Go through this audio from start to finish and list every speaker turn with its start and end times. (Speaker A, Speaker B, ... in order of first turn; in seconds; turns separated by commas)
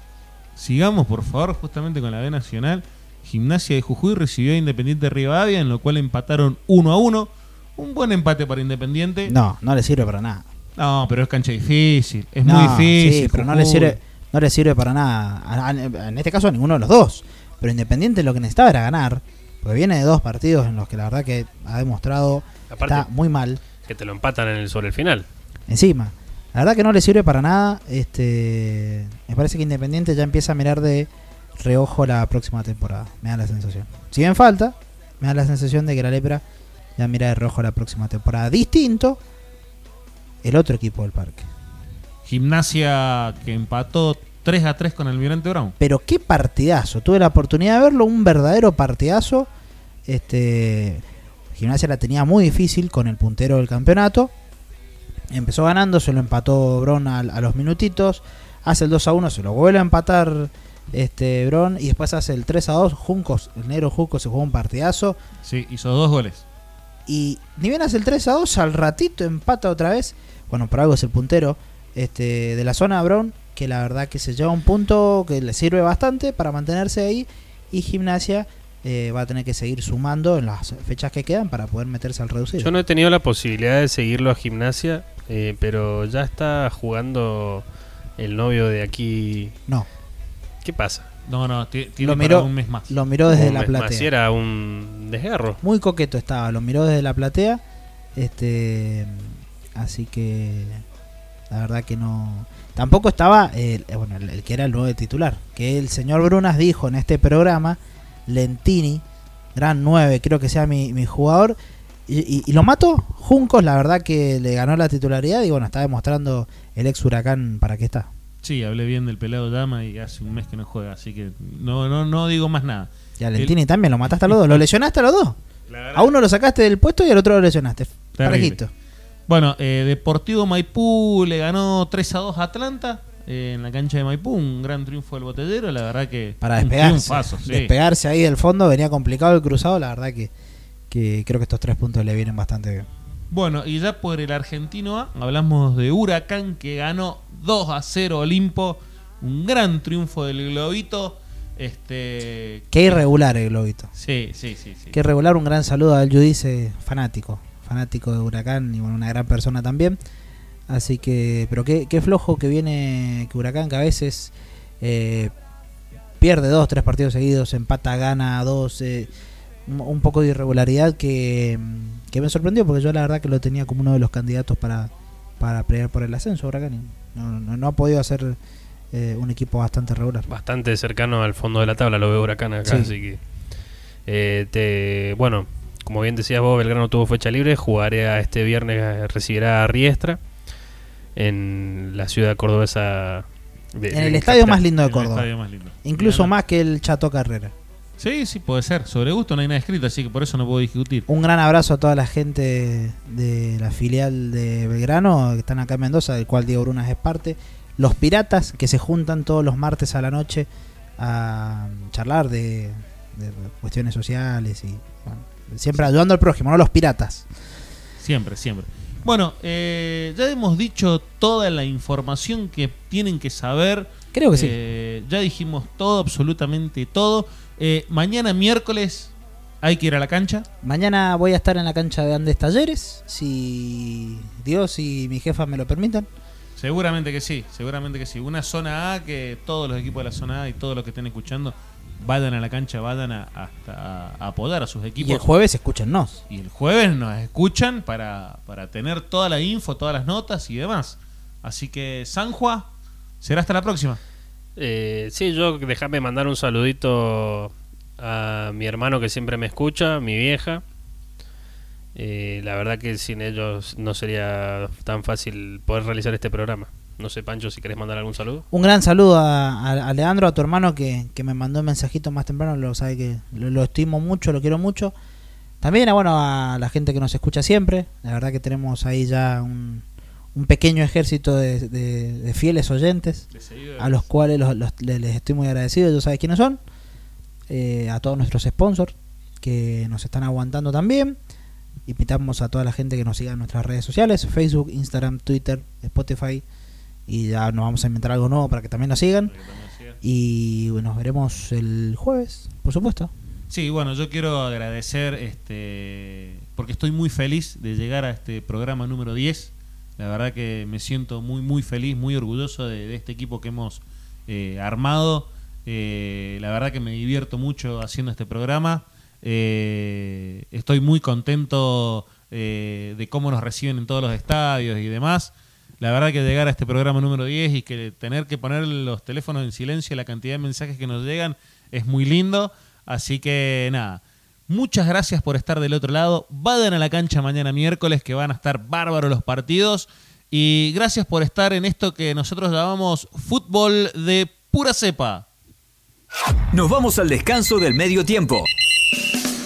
Speaker A: 0.6-9.3, Speaker B: 9.3-10.4, Speaker A: 10.8-14.0, Speaker B: 12.4-23.6, Speaker C: 22.7-23.1, Speaker C: 23.8-25.2, Speaker B: 25.7-36.4, Speaker B: 37.0-39.2, Speaker B: 40.4-41.5, Speaker A: 42.2-45.7, Speaker B: 45.8-49.5, Speaker B: 50.1-51.0, Speaker B: 51.5-54.3, Speaker B: 55.3-65.2, Speaker A: 65.4-66.4, Speaker B: 67.1-82.8, Speaker C: 82.6-87.6, Speaker C: 88.2-89.5, Speaker C: 90.6-91.0, Speaker A: 91.2-92.9, Speaker B: 92.0-94.1, Speaker C: 93.3-95.6, Speaker B: 95.6-97.6, Speaker B: 98.2-100.8, Speaker B: 101.5-109.0, Speaker B: 109.5-111.6, Speaker B: 112.1-118.1, Speaker A: 118.4-123.5, Speaker B: 123.2-125.4, Speaker A: 124.1-124.6, Speaker A: 125.7-126.1, Speaker B: 125.9-128.7, Speaker A: 128.2-128.6, Speaker A: 129.3-137.7, Speaker B: 136.4-140.3, Speaker B: 140.9-142.9, Speaker A: 143.3-152.9, Speaker B: 152.7-153.9, Speaker A: 154.0-155.0, Speaker B: 154.9-160.0, Speaker B: 160.7-165.3, Speaker B: 166.2-169.1, Speaker B: 169.7-178.4, Speaker B: 178.9-180.2, Speaker C: 180.3-183.2, Speaker B: 182.6-182.9, Speaker C: 184.1-190.2, Speaker C: 191.2-194.6, Speaker B: 193.9-195.3, Speaker A: 194.8-196.3, Speaker B: 195.8-197.5, Speaker A: 198.0-201.0, Speaker B: 201.1-217.2, Speaker A: 218.0-230.4, Speaker B: 224.1-224.6, Speaker B: 230.6-236.1, Speaker A: 236.6-245.3, Speaker B: 245.0-246.2, Speaker A: 246.3-252.7, Speaker A: 253.2-254.0, Speaker C: 254.6-260.6, Speaker C: 261.9-268.4, Speaker B: 268.5-274.9, Speaker B: 275.6-283.3, Speaker A: 283.3-284.1, Speaker B: 283.8-286.6, Speaker B: 287.5-291.2, Speaker B: 291.9-296.4, Speaker B: 297.1-299.3, Speaker A: 299.3-300.0, Speaker B: 300.0-303.1, Speaker A: 303.5-345.2, Speaker D: 346.5-348.5